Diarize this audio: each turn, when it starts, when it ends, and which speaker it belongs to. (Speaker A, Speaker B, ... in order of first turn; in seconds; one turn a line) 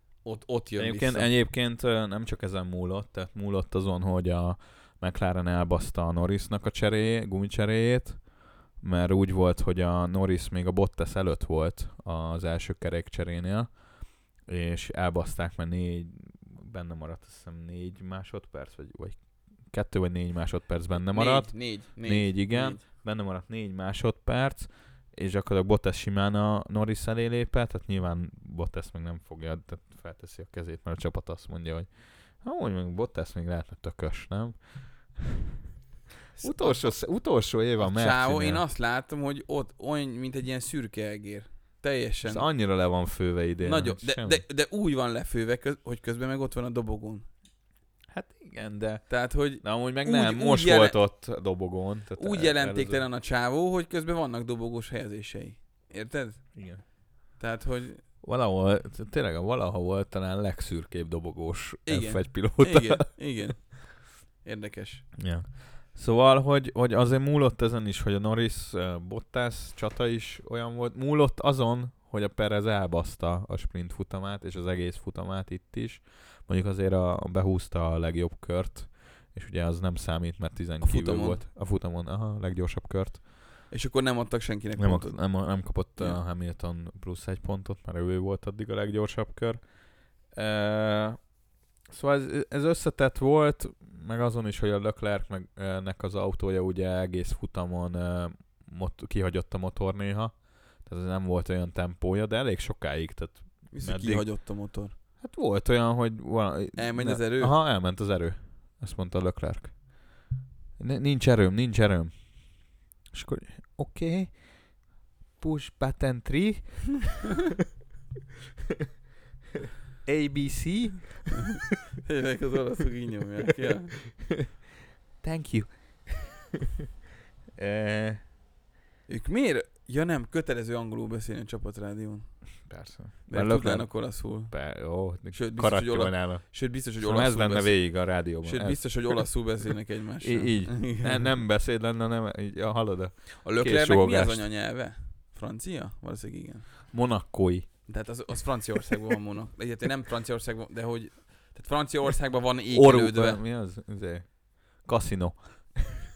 Speaker A: 0.2-1.3
Speaker B: 0.8-8.2
Speaker B: 8.8-13.7
Speaker B: 14.5-19.2
Speaker B: 19.7-34.6
Speaker A: 21.1-22.8
Speaker B: 36.4-38.6
Speaker A: 36.4-37.0
Speaker A: 37.8-42.5
Speaker B: 42.2-44.4
Speaker A: 43.6-47.3
Speaker B: 48.1-49.1
Speaker A: 49.1-51.0
Speaker B: 49.6-53.0
Speaker A: 52.2-56.6
Speaker B: 56.6-56.8
Speaker A: 57.4-58.0
Speaker B: 58.2-63.1
Speaker A: 61.9-65.1
Speaker B: 65.2-83.2
Speaker A: 80.8-81.4
Speaker A: 83.7-86.2
Speaker B: 84.8-89.6
Speaker B: 90.3-91.2
Speaker B: 91.9-104.3
Speaker A: 103.7-104.9
Speaker B: 105.2-109.8
Speaker A: 106.8-107.5
Speaker B: 110.8-112.1
Speaker B: 113.1-114.4
Speaker B: 115.4-117.2
Speaker B: 120.0-121.6
Speaker A: 121.5-124.1
Speaker B: 124.2-124.5
Speaker B: 125.2-126.6
Speaker B: 127.6-128.2
Speaker A: 129.1-132.4
Speaker B: 132.7-139.2
Speaker A: 133.3-134.6
Speaker A: 135.3-141.3
Speaker B: 140.2-144.4
Speaker A: 143.4-146.8
Speaker B: 146.9-147.7
Speaker A: 147.9-153.4
Speaker B: 152.7-156.1